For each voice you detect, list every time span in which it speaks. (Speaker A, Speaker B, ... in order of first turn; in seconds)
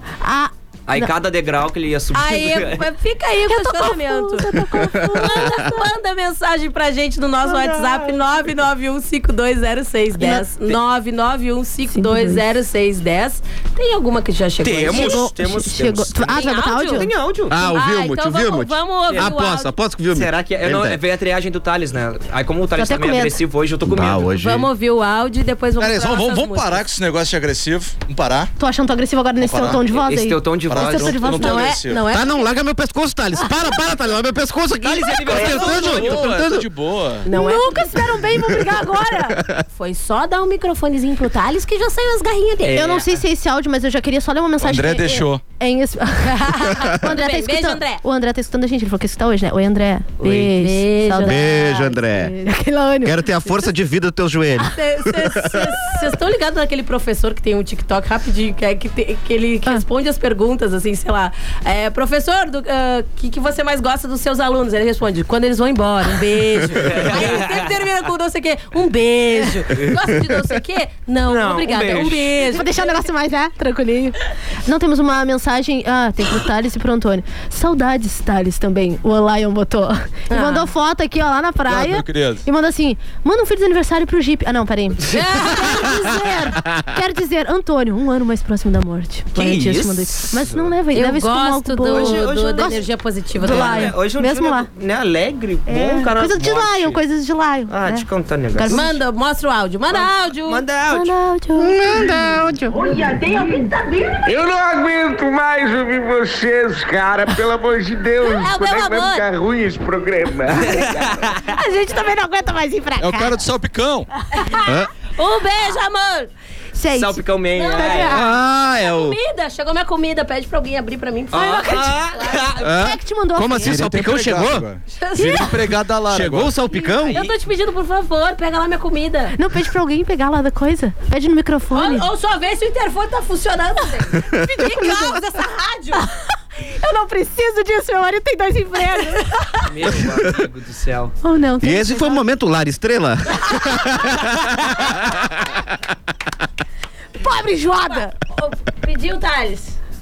Speaker A: 0.2-1.1, 3.5-5.5, 11.9-12.4, 14.9-17.1, 22.8-23.4, 28.6-31.7, 37.3-39.4, 42.7-53.4, 72.5-92.8, 93.4-94.7, 95.7-99.0, 100.9-102.8, 111.5-113.4, 116.7-118.3, 122.6-123.9, 125.2-125.5, 129.3-132.1, 134.5-135.2, 136.6-139.7, 141.2-142.2, 147.2-148.1
Speaker B: 0.9-2.8, 7.4-8.2, 14.6-17.6, 20.1-24.3, 29.7-31.5, 34.8-36.3, 42.6-43.2, 66.8-67.7, 71.3-72.4, 89.3-90.7, 91.9-92.8, 93.4-97.0, 97.7-98.8, 99.9-101.1, 110.5-111.4, 116.9-118.2, 121.3-122.7, 139.7-141.1
Speaker C: 2.1-15.2, 16.3-17.1, 17.7-19.7, 24.4-26.9, 31.3-32.5, 37.2-38.0, 39.7-42.9, 46.4-48.0, 50.2-51.8, 54.6-72.9, 80.3-80.7, 85.1-86.2, 90.9-93.9, 98.7-100.6, 108.2-109.2, 114.3-116.3, 117.5-122.5, 125.0-125.5, 126.7-129.3, 131.7-136.0, 147.9-149.7
Speaker D: 17.5-21.0, 23.9-24.7, 32.1-36.7, 39.4-39.6, 51.2-52.3, 53.0-55.4, 101.5-102.5, 114.6-114.9, 118.1-119.2, 122.6-124.7, 126.1-127.2, 141.6-145.3
Speaker E: 25.8-28.5, 29.4-29.8, 30.7-32.1, 35.3-37.2, 44.6-45.4, 81.7-82.4, 113.0-114.1, 123.6-126.5
Speaker F: 104.2-111.2